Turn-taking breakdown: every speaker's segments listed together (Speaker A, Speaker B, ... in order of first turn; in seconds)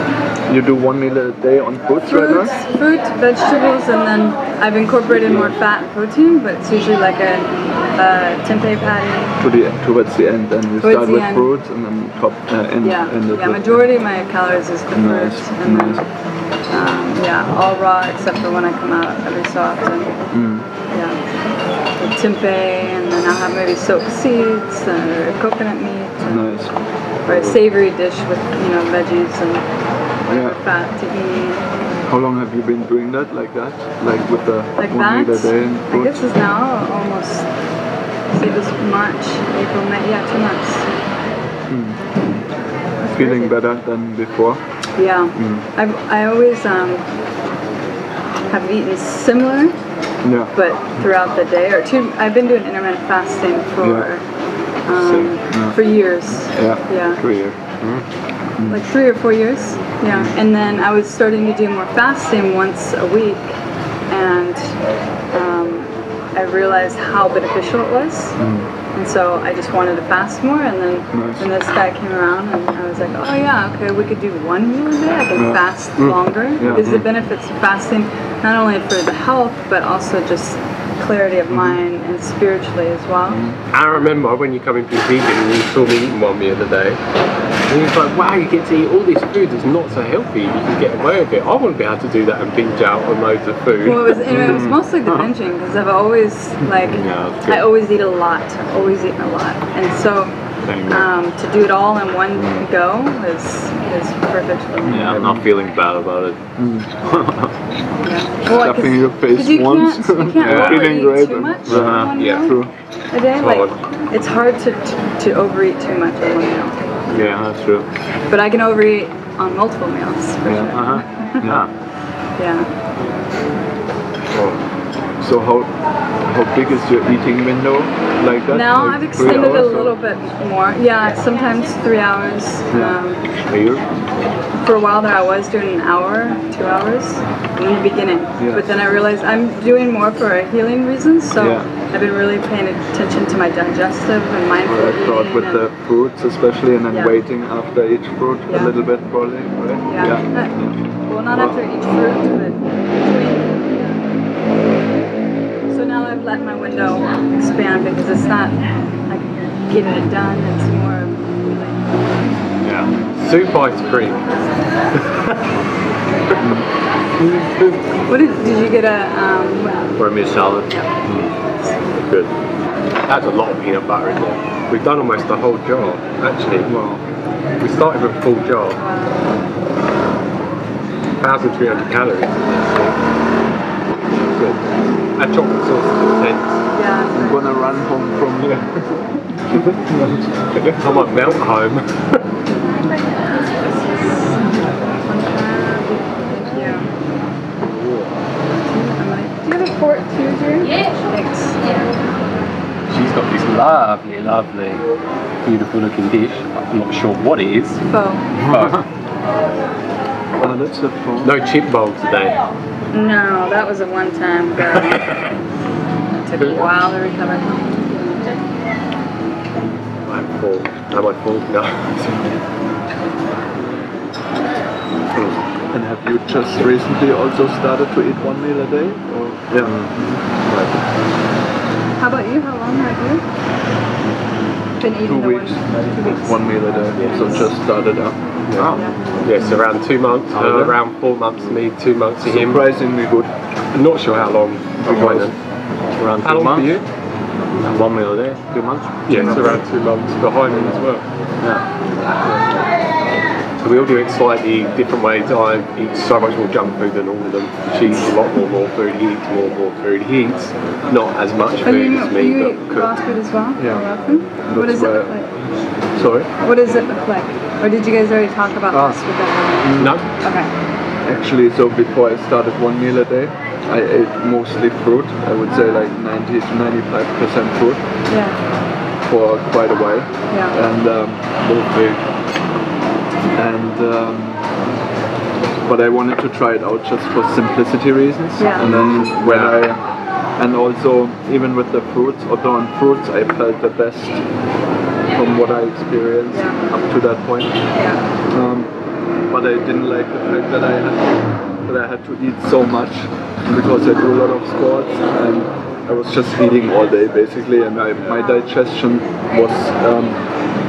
Speaker A: 0.5-2.5, 5.1-5.5, 9.4-13.7, 14.9-16.0, 20.3-20.6, 26.2-26.7, 30.2-30.6, 32.0-36.3, 41.7-42.0, 43.1-44.6, 45.3-45.6, 50.2-50.5, 53.8-54.1, 54.9-55.8, 56.5-57.5, 58.6-58.8, 68.4-68.7, 71.1-71.5, 75.3-75.6, 76.6-76.9, 81.5-81.8, 83.3-83.6, 104.8-105.5, 106.6-106.9, 108.4-112.7, 120.4-121.7, 125.2-125.7, 126.2-130.0, 132.7-133.0, 138.4-138.7, 141.3-141.7, 144.6-151.6, 166.4-166.7, 176.6-177.0, 184.2-184.6, 187.1-191.1, 210.4-211.3, 225.7-229.8, 235.0-238.9, 242.2-243.3, 244.8-245.3, 263.6-263.8, 264.4-265.2, 265.9-266.3, 268.7-269.0, 269.6-269.9, 271.0-277.8, 279.0-281.3, 283.3-284.5, 285.6-289.8, 290.4-294.2, 295.1-297.6, 298.3-298.7, 299.3-310.2
Speaker B: 2.1-9.3, 10.8-11.5, 12.8-16.1, 16.7-20.2, 20.9-21.2, 22.0-26.6, 27.2-29.7, 30.2-31.7, 34.8-37.5, 38.3-40.9, 43.0-43.5, 45.0-47.1, 48.5-49.8, 50.5-54.2, 54.9-57.2, 58.7-64.8, 65.3-68.4, 68.9-83.4, 93.8-105.2, 108.0-112.6, 113.1-116.8, 118.3-121.5, 122.4-122.7, 128.5-133.2, 134.5-145.6, 148.5-148.7, 149.9-154.1, 155.7-162.2, 168.1-170.0, 178.8-179.3, 186.7-187.6, 193.6-196.9, 198.7-201.9, 207.9-208.3, 212.9-215.3, 216.1-217.9, 232.0-233.2, 234.8-237.5, 238.6-239.5, 261.6-265.3, 266.4-270.5, 275.5-275.9, 278.1-278.4, 280.3-280.6, 288.4-288.7, 296.3-296.7, 297.8-298.0
Speaker C: 27.3-27.5, 76.0-77.0, 83.7-87.0, 87.7-94.8, 96.9-97.7, 113.3-113.8, 117.1-117.4, 124.3-124.6, 133.5-133.8, 163.2-164.3, 167.2-167.8, 173.1-176.7, 177.6-178.8, 181.2-182.5, 185.2-186.5, 190.8-192.2, 202.9-204.8, 205.4-207.8, 208.4-208.8, 211.2-212.4, 220.0-222.4, 236.9-237.3, 238.5-242.6, 243.7-245.3, 246.0-246.8, 249.1-251.1, 253.6-262.9, 269.8-270.1
Speaker D: 100.7-101.1, 102.3-102.6, 104.9-106.4, 107.0-107.5, 110.4-111.0, 111.7-112.5, 117.1-117.9, 120.7-121.7, 162.6-162.9, 170.0-171.3, 229.6-229.9, 230.4-230.8, 240.3-240.8, 246.0-246.8, 247.6-249.6, 281.5-282.0, 288.6-289.6